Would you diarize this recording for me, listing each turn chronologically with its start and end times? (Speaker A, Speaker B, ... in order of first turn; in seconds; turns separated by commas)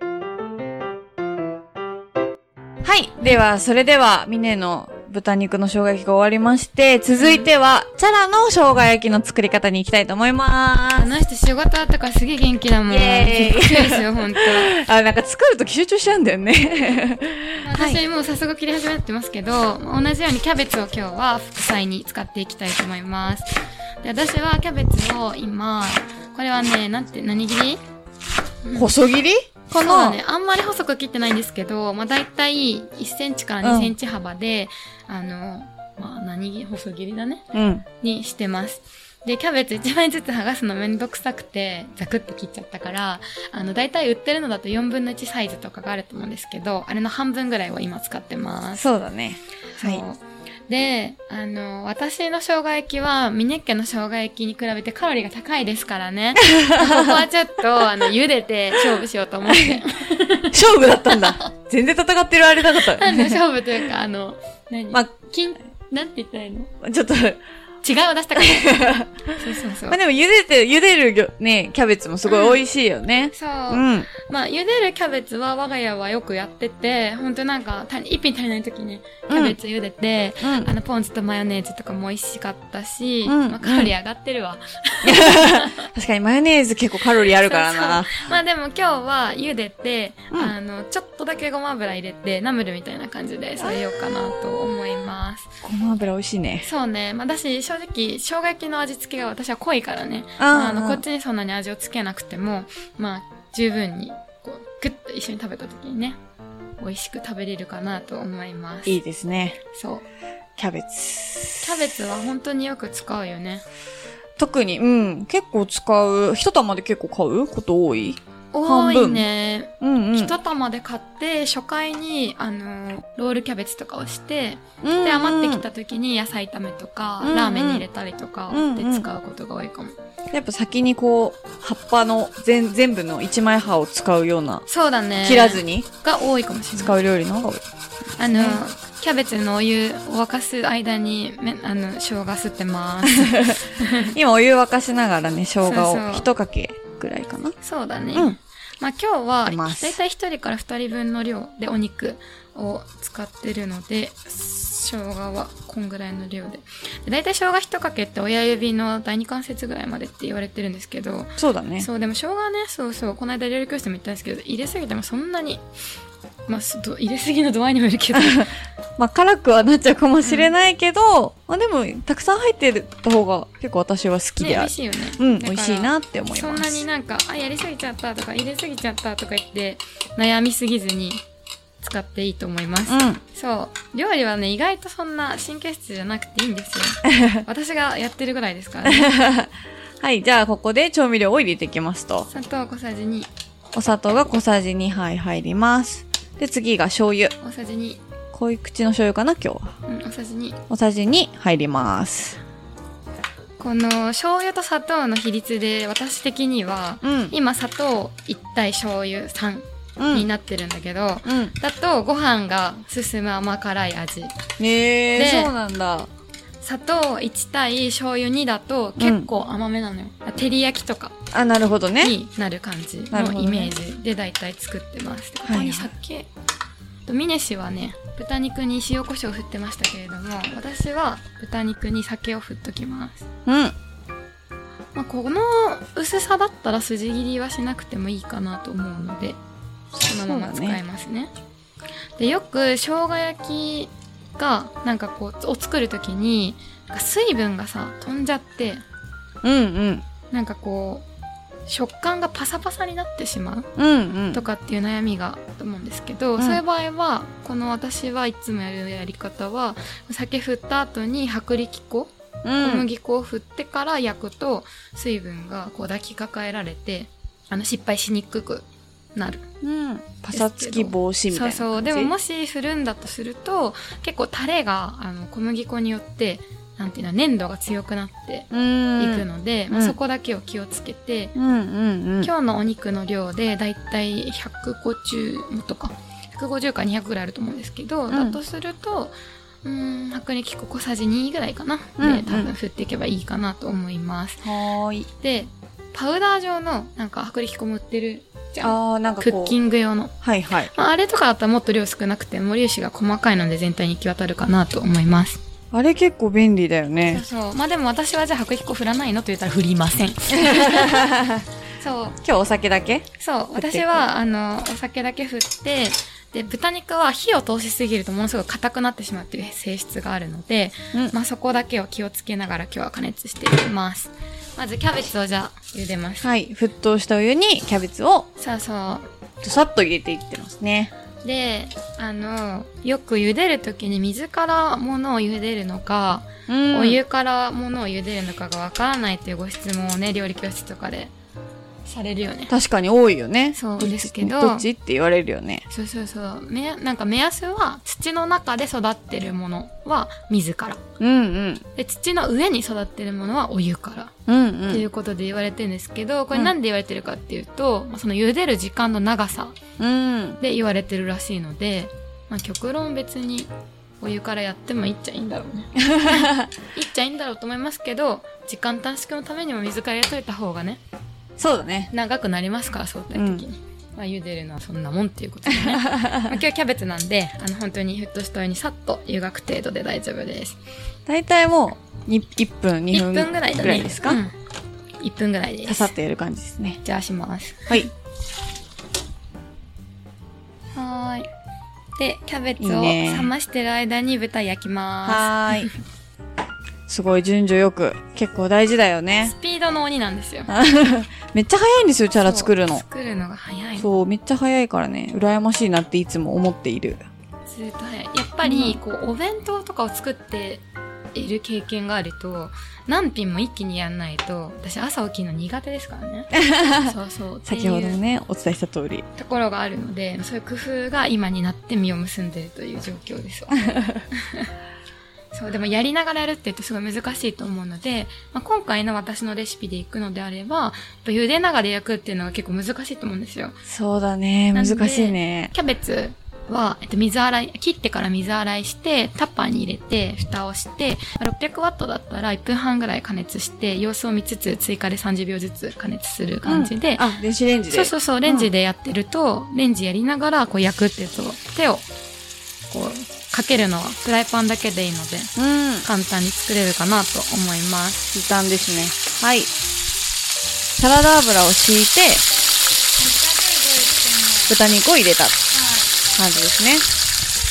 Speaker A: 2.8-11.1, Speaker B: 7.2-7.5, Speaker B: 11.0-14.7, Speaker A: 12.9-18.0, Speaker B: 17.6-23.5, Speaker B: 24.0-27.8, Speaker B: 28.6-28.9, Speaker A: 28.8-30.2, Speaker B: 29.8-37.5, Speaker A: 33.6-33.9, Speaker A: 37.5-37.8, Speaker B: 38.0-48.8, Speaker A: 48.8-50.0, Speaker B: 49.7-60.6, Speaker A: 56.5-57.2, Speaker A: 59.5-59.8, Speaker A: 60.5-63.4, Speaker B: 61.1-61.5, Speaker B: 62.8-66.7, Speaker A: 66.8-67.4, Speaker B: 67.8-68.8, Speaker A: 68.4-74.1, Speaker B: 69.4-70.0, Speaker B: 72.2-72.6, Speaker B: 73.3-85.8, Speaker A: 79.3-79.6, Speaker A: 80.4-80.7, Speaker A: 83.2-83.9, Speaker A: 85.0-88.3, Speaker B: 87.3-95.5, Speaker A: 95.6-96.7, Speaker B: 96.6-106.2, Speaker A: 100.4-101.0, Speaker B: 106.8-109.0, Speaker A: 108.9-109.6, Speaker B: 109.7-110.0, Speaker A: 110.6-111.8, Speaker B: 111.6-113.6, Speaker A: 114.4-119.3, Speaker B: 118.5-129.9, Speaker A: 119.8-120.3, Speaker A: 124.8-125.6, Speaker A: 127.2-127.9, Speaker A: 128.5-129.1, Speaker A: 130.3-134.7, Speaker B: 134.7-137.0, Speaker A: 135.2-135.9, Speaker A: 136.8-137.6, Speaker B: 138.2-144.1, Speaker A: 138.3-138.6, Speaker A: 143.0-147.5, Speaker B: 145.6-146.3, Speaker B: 147.6-165.6, Speaker A: 149.4-150.0, Speaker A: 161.4-161.9, Speaker B: 166.5-168.5, Speaker A: 168.1-176.8, Speaker B: 170.2-170.5, Speaker B: 174.4-181.2, Speaker B: 181.8-189.1, Speaker A: 182.9-183.2, Speaker A: 188.8-192.3, Speaker B: 192.3-193.3, Speaker A: 193.7-197.3, Speaker B: 197.4-198.0, Speaker A: 198.3-199.7, Speaker B: 199.8-200.6, Speaker A: 200.7-202.4, Speaker B: 203.6-214.3, Speaker A: 207.0-207.3, Speaker A: 210.0-210.3, Speaker A: 211.2-211.5, Speaker A: 214.6-216.1, Speaker B: 215.1-215.5, Speaker B: 216.6-221.2, Speaker A: 219.0-219.3, Speaker A: 221.3-222.1, Speaker B: 222.0-226.3, Speaker A: 223.1-223.7, Speaker A: 225.5-225.9, Speaker B: 227.0-233.2, Speaker A: 233.4-233.7, Speaker B: 234.9-239.4, Speaker B: 239.9-241.3, Speaker A: 240.1-240.8, Speaker B: 242.2-248.8, Speaker A: 249.4-250.0, Speaker B: 250.3-251.1, Speaker B: 251.7-253.7, Speaker A: 253.8-254.4, Speaker B: 254.3-269.5, Speaker A: 262.4-262.9, Speaker A: 269.6-272.1, Speaker B: 270.3-281.4, Speaker A: 278.5-280.0, Speaker A: 281.4-282.3, Speaker B: 282.2-294.4, Speaker A: 288.1-288.4, Speaker A: 292.0-292.5, Speaker A: 294.4-295.1, Speaker B: 295.2-300.1, Speaker A: 298.6-299.6, Speaker A: 300.2-300.7, Speaker B: 300.7-305.4, Speaker A: 305.7-307.2, Speaker B: 307.1-311.1, Speaker A: 310.4-311.4, Speaker B: 311.8-312.2, Speaker A: 312.2-314.1, Speaker B: 313.2-326.3, Speaker A: 326.2-328.3, Speaker B: 328.4-329.1, Speaker A: 329.4-330.9, Speaker B: 331.2-341.1, Speaker A: 336.5-337.0, Speaker B: 341.9-342.5, Speaker A: 342.5-345.6, Speaker B: 343.6-344.7, Speaker B: 345.7-350.8, Speaker A: 351.0-351.6, Speaker B: 351.8-354.1, Speaker A: 354.3-354.9, Speaker B: 354.7-359.6, Speaker A: 359.8-360.4, Speaker B: 360.4-370.8, Speaker A: 365.8-366.5, Speaker A: 371.4-371.9, Speaker B: 371.9-380.6, Speaker A: 373.1-373.4, Speaker A: 375.6-376.2, Speaker A: 381.1-384.2, Speaker B: 382.9-384.3, Speaker B: 385.0-385.9, Speaker A: 385.7-386.8, Speaker B: 386.8-387.9, Speaker B: 390.7-391.3, Speaker B: 392.0-395.7, Speaker A: 392.6-393.3, Speaker A: 395.1-395.7, Speaker A: 396.9-399.3, Speaker B: 399.2-400.5, Speaker A: 400.5-402.8, Speaker B: 402.2-403.9, Speaker A: 403.8-407.0, Speaker B: 407.5-418.0, Speaker A: 408.4-408.8, Speaker A: 416.4-416.9, Speaker A: 417.5-419.1, Speaker B: 419.1-424.5, Speaker B: 425.3-433.6, Speaker A: 433.7-435.5, Speaker B: 434.5-447.1, Speaker A: 446.4-448.5, Speaker B: 447.7-451.9, Speaker B: 452.7-458.1, Speaker A: 455.4-455.9, Speaker A: 458.1-459.5, Speaker A: 460.8-462.2, Speaker B: 463.0-464.6, Speaker A: 464.5-465.4, Speaker B: 465.5-465.9, Speaker A: 466.1-466.9